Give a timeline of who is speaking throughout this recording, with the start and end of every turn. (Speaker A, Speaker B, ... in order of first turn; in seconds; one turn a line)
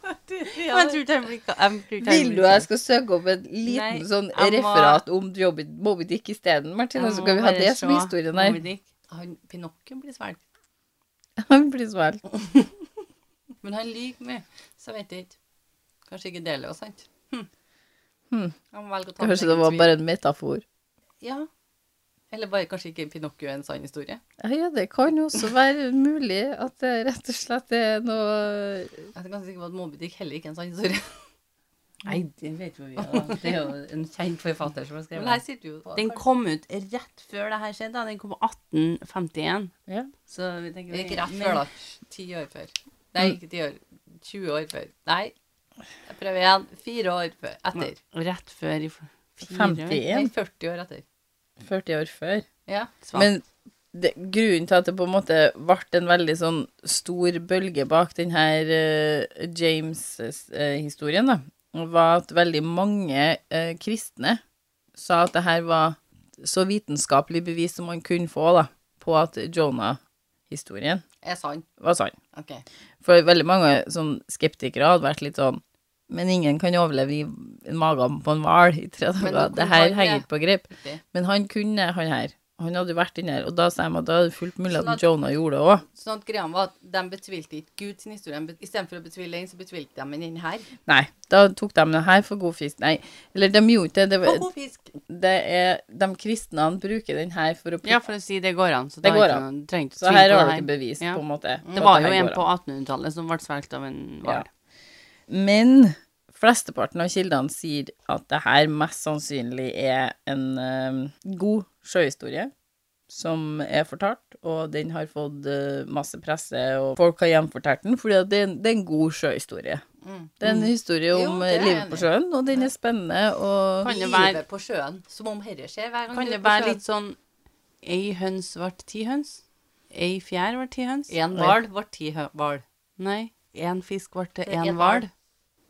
Speaker A: 0.3-1.0
Speaker B: 0.4-2.7
Speaker C: 2.0-8.6
Speaker B: 3.6-5.0
Speaker B: 6.9-8.9
Speaker A: 9.1-10.4
Speaker C: 11.4-12.2
Speaker A: 13.6-15.3
Speaker A: 16.1-17.5
Speaker C: 18.3-18.6
Speaker A: 18.7-19.9
Speaker C: 19.2-20.6
Speaker A: 21.2-21.5
Speaker A: 22.3-24.2
Speaker C: 24.4-29.1
Speaker A: 29.1-31.1
Speaker B: 32.0-35.4
Speaker A: 33.0-33.7
Speaker A: 35.1-36.2
Speaker B: 35.9-39.7
Speaker B: 40.2-41.6
Speaker A: 40.9-45.3
Speaker A: 46.0-48.0
Speaker B: 47.8-50.1
Speaker C: 49.4-50.3
Speaker A: 50.0-51.0
Speaker C: 51.6-52.5
Speaker A: 52.7-53.1
Speaker C: 53.1-64.4
Speaker C: 65.0-71.0
Speaker A: 71.2-71.6
Speaker C: 71.8-72.2
Speaker A: 72.3-72.6
Speaker C: 73.0-85.8
Speaker A: 79.2-81.0
Speaker A: 84.7-85.0
Speaker A: 85.9-90.7
Speaker C: 90.9-94.5
Speaker A: 94.2-94.9
Speaker C: 95.1-98.1
Speaker B: 97.8-101.2
Speaker C: 99.0-99.4
Speaker C: 100.0-102.4
Speaker B: 101.7-104.5
Speaker C: 105.3-112.5
Speaker C: 113.1-119.8
Speaker A: 120.0-120.3
Speaker C: 120.4-123.9
Speaker A: 121.1-122.1
Speaker B: 123.8-124.4
Speaker A: 123.8-126.8
Speaker B: 126.1-127.2
Speaker B: 127.8-131.2
Speaker A: 131.1-132.6
Speaker B: 133.0-135.1
Speaker A: 134.4-135.1